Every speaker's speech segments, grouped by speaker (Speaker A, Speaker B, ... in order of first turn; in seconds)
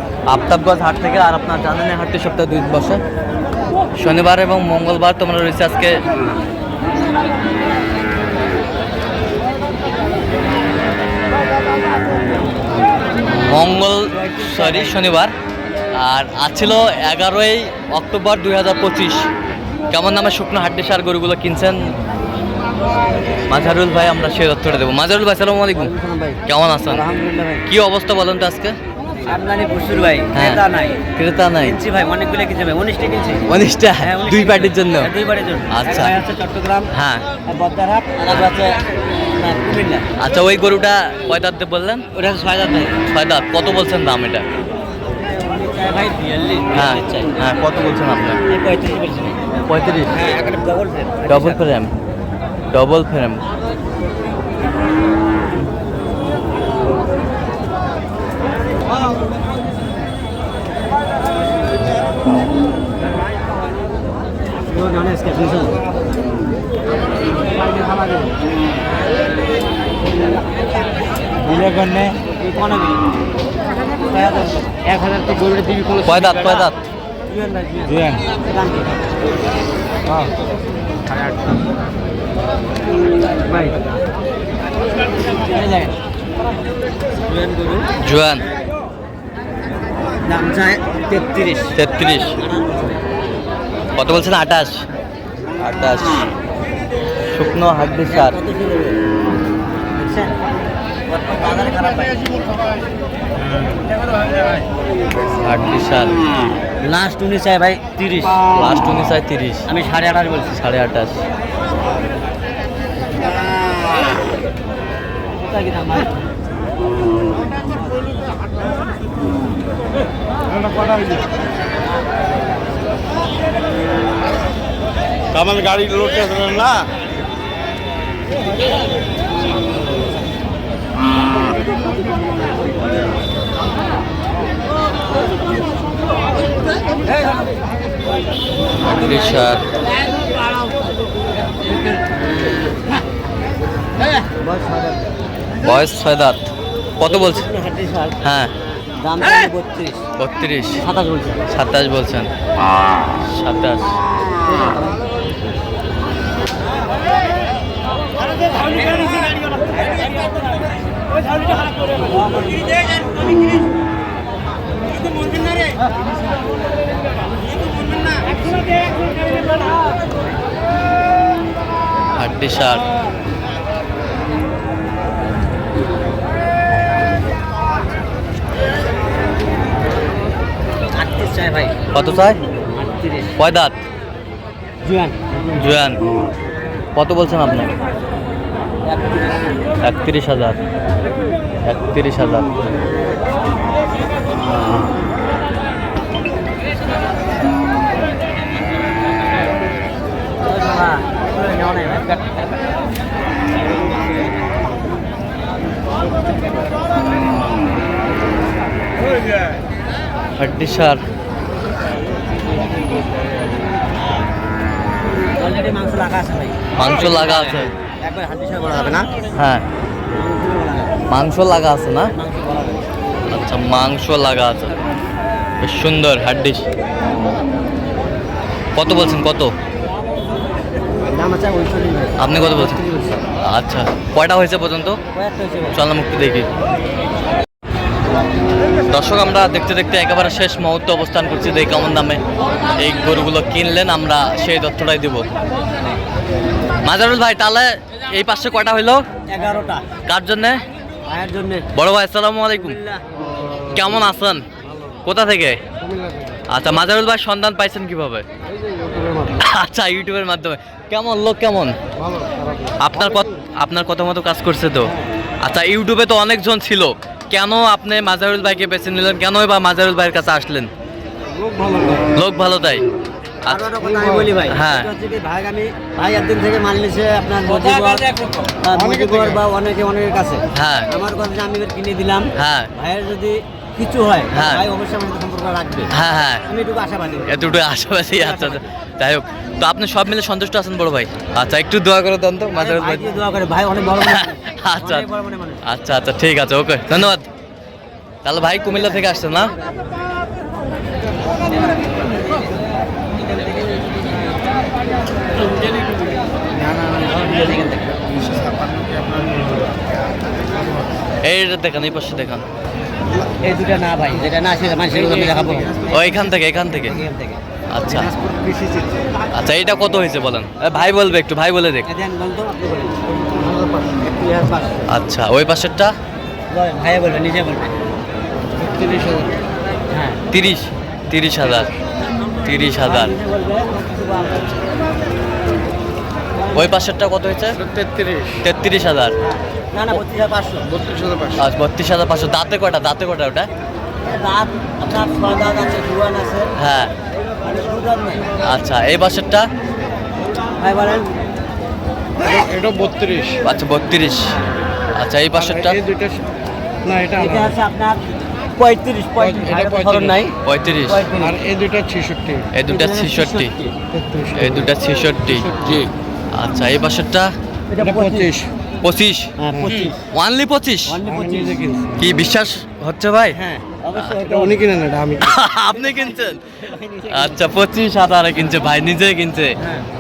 Speaker A: 0.3-3.0, 4.0-6.0, 13.4-15.3, 15.9-19.3, 19.9-21.9, 23.5-25.9, 26.4-27.1, 27.7-28.7, 30.3-30.6, 31.1-31.8, 33.5-35.1, 35.7-36.1, 36.9-37.2, 40.2-42.0, 43.1-44.5, 46.7-48.4, 49.7-50.1, 51.3-51.9, 52.7-53.5, 76.0-76.9, 88.0-88.4, 91.8-92.4, 93.9-94.9, 95.6-96.2, 97.3-98.4, 105.4-106.2, 108.5-109.7, 110.5-111.2, 138.8-139.7, 145.6-147.5, 148.2-148.5, 150.2-150.8, 151.5-152.3, 153.2-154.0, 172.2-172.8, 181.9-182.4, 183.4-183.8, 185.5-186.0, 187.0-187.7, 189.8-190.6, 191.6-192.7, 210.4-211.0, 216.8-217.7, 219.3-219.6, 221.1-222.1, 223.3-224.8, 225.6-226.7, 228.8-229.5, 232.2-232.8, 233.4-235.0, 235.7-236.5, 238.9-242.2, 242.8-245.3, 246.8-249.1, 250.1-250.6, 251.7-252.8, 253.7-254.4, 255.1-255.6, 256.5-258.2, 259.4-261.8, 262.8-270.7, 272.1-272.9, 273.5-273.7, 274.4-274.9, 280.5-280.9, 282.4-282.7, 284.3-284.6, 285.9-286.4, 287.2-293.2, 294.0-295.1, 295.6-297.3, 298.2-299.5, 311.2-312.4, 315.9-317.0, 317.7-318.1, 319.3-321.9, 324.9-325.9, 330.3-331.7, 332.4-333.1, 336.5-337.6, 338.4-339.1, 341.4-343.5, 346.6-346.9, 348.4-349.5, 353.4-354.2, 355.0-355.8, 360.4-361.1, 362.5-363.5, 364.4-367.3, 368.8-371.0, 372.0-373.4, 375.1-376.4, 377.1-379.6
Speaker B: 14.1-15.0, 25.8-27.6, 29.3-31.0, 31.6-33.5, 34.0-36.9, 37.5-38.8, 39.4-40.0, 42.1-43.0, 45.2-47.5, 48.5-49.5, 50.1-51.7, 64.7-65.8, 72.2-73.0, 74.1-76.7, 77.3-79.1, 83.5-83.8, 85.3-86.0, 87.2-87.9, 90.2-91.8, 92.4-93.0, 98.0-99.0, 100.0-100.4, 101.1-102.3, 106.8-108.4, 109.7-110.6, 115.4-116.1, 144.3-145.1, 147.0-148.2, 149.0-150.1, 150.8-151.4, 180.9-181.8, 182.8-183.4, 184.8-185.5, 188.8-189.6, 200.4-202.4, 215.4-219.1, 220.1-221.0, 222.1-222.9, 231.0-233.2, 235.1-235.8, 249.3-249.9, 251.1-251.7, 252.6-253.0, 273.5-285.9, 286.5-287.5, 288.1-288.6, 292.5-295.6, 301.4-302.5, 303.2-304.1, 306.7-308.0, 313.3-316.1, 316.7-317.4, 318.2-319.1, 321.9-324.8, 326.5-327.7, 329.9-330.2, 332.8-334.6, 336.4-336.8, 339.2-340.7, 344.0-346.5, 347.4-348.3, 350.6-351.1, 357.1-361.4, 362.7-363.8, 367.7-368.3, 369.4-370.0, 370.9-371.7, 373.4-374.7, 375.7-377.5, 379.6-379.9
Speaker C: 71.5-72.2, 125.5-126.5, 255.9-256.2, 258.7-259.4, 262.2-262.7, 271.4-272.1, 273.9-274.3, 278.2-279.4, 315.2-315.8, 328.6-329.4, 337.6-338.4, 340.8-341.4, 352.2-353.4, 355.5-356.2, 356.9-357.5, 359.3-360.1, 361.2-362.5, 363.9-364.7, 365.3-365.9, 367.8-368.5, 371.1-372.0, 374.2-375.4